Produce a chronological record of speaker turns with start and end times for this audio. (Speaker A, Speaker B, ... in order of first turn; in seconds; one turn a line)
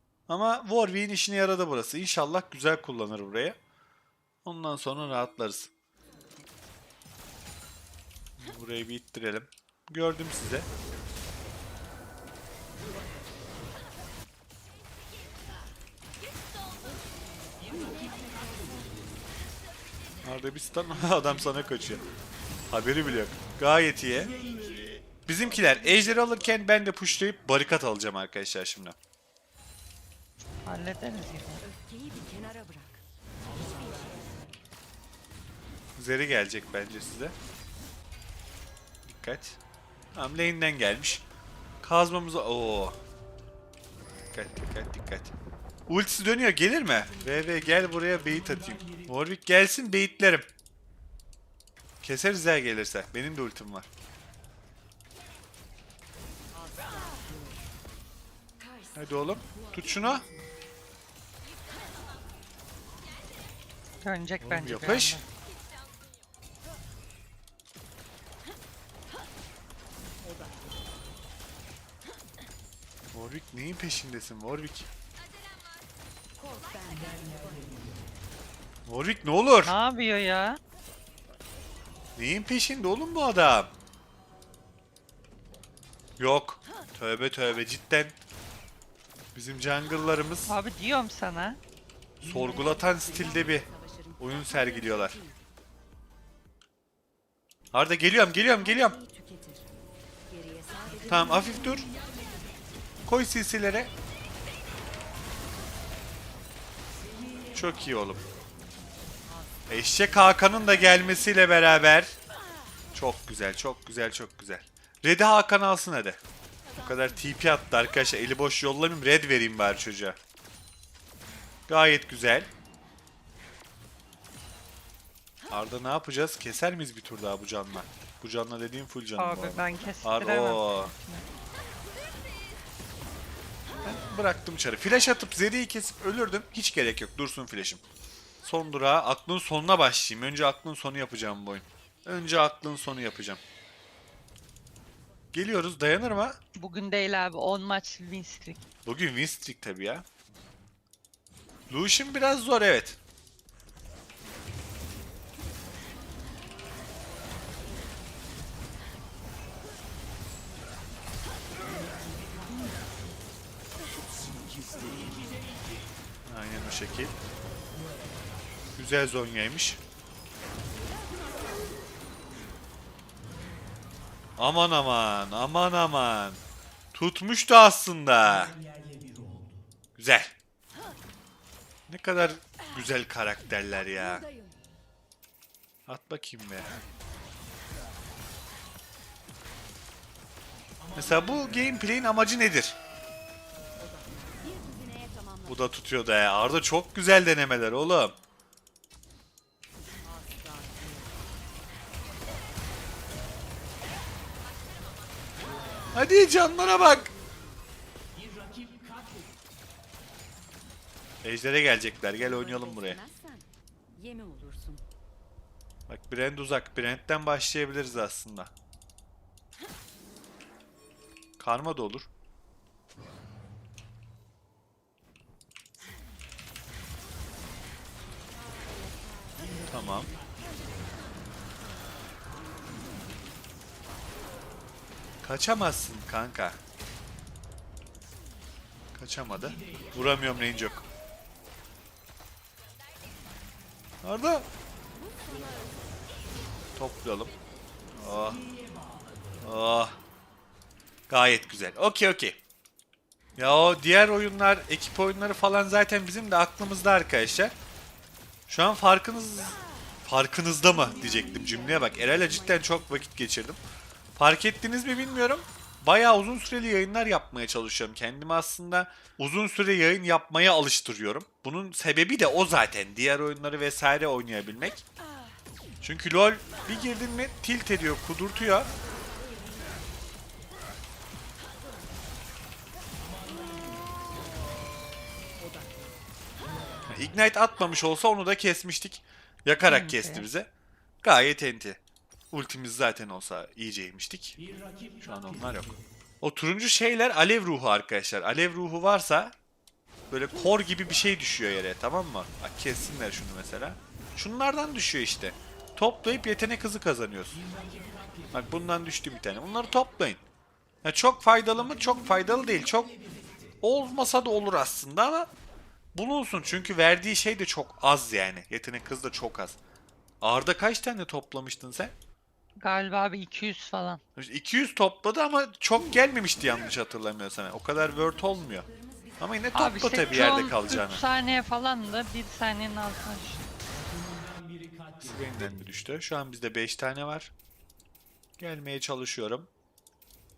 Speaker A: 0.3-3.6
Speaker A: 4.5-5.7
Speaker A: 8.4-10.7
Speaker B: 16.9-19.1
Speaker A: 20.2-22.0
Speaker A: 22.7-24.3
Speaker A: 25.2-29.0
Speaker C: 30.7-31.6
Speaker B: 31.6-34.4
Speaker A: 36.0-37.4
Speaker A: 39.1-39.6
Speaker A: 40.1-41.2
Speaker A: 41.8-43.0
Speaker A: 44.3-45.3
Speaker A: 45.9-50.5
Speaker A: 52.0-53.9
Speaker B: 56.6-57.6
Speaker B: 58.6-60.5
Speaker A: 59.0-60.2
Speaker C: 64.0-65.2
Speaker A: 64.4-65.2
Speaker A: 73.1-74.9
Speaker B: 76.4-77.9
Speaker A: 78.9-79.8
Speaker C: 79.6-80.6
Speaker A: 82.2-83.7
Speaker A: 86.2-88.2
Speaker A: 89.3-90.5
Speaker C: 90.5-91.6
Speaker A: 92.2-93.7
Speaker B: 92.2-95.4
Speaker A: 94.2-95.2
Speaker A: 97.7-99.0
Speaker B: 98.2-102.5
Speaker A: 101.1-101.9
Speaker A: 103.1-103.9
Speaker A: 107.5-108.2
Speaker B: 109.3-109.8
Speaker A: 109.7-112.2
Speaker A: 113.0-116.2
Speaker B: 116.7-117.4
Speaker A: 116.9-120.2
Speaker A: 121.7-122.5
Speaker A: 125.5-130.9
Speaker C: 129.2-131.2
Speaker A: 133.8-137.8
Speaker A: 138.4-143.4
Speaker A: 145.3-146.4
Speaker C: 146.6-148.6
Speaker A: 148.9-150.1
Speaker A: 151.7-153.0
Speaker A: 166.2-167.2
Speaker A: 168.8-169.8
Speaker A: 174.4-176.4
Speaker A: 176.9-178.6
Speaker A: 180.0-180.3
Speaker A: 181.9-184.2
Speaker B: 183.8-184.6
Speaker A: 185.9-186.7
Speaker A: 190.9-192.8
Speaker B: 193.8-195.8
Speaker A: 195.5-198.2
Speaker B: 200.2-201.1
Speaker A: 205.9-207.1
Speaker B: 206.7-207.5
Speaker A: 211.2-213.0
Speaker B: 212.1-214.8
Speaker A: 215.9-218.5
Speaker A: 221.4-222.1
Speaker B: 228.4-230.1
Speaker A: 229.7-230.1
Speaker A: 235.2-236.6
Speaker A: 239.0-240.8
Speaker A: 244.0-244.5
Speaker B: 245.0-246.1
Speaker A: 246.8-247.3
Speaker A: 247.9-248.4
Speaker A: 249.4-250.0
Speaker A: 251.1-252.4
Speaker A: 253.4-257.6
Speaker A: 258.5-263.6
Speaker B: 260.6-263.1
Speaker A: 264.2-274.8
Speaker A: 275.8-278.7
Speaker B: 279.1-279.9
Speaker B: 283.6-283.8
Speaker A: 286.9-290.5
Speaker C: 289.6-290.3
Speaker A: 291.0-291.8
Speaker A: 292.3-294.4
Speaker A: 295.0-299.3
Speaker A: 300.1-307.4
Speaker A: 308.3-310.2
Speaker A: 310.8-312.9
Speaker A: 313.6-315.3
Speaker A: 315.9-319.6
Speaker A: 320.2-321.9
Speaker C: 322.6-324.0
Speaker A: 324.2-328.7
Speaker B: 327.7-330.5
Speaker A: 329.2-331.0
Speaker C: 329.6-333.4
Speaker A: 335.0-337.3
Speaker A: 338.4-339.5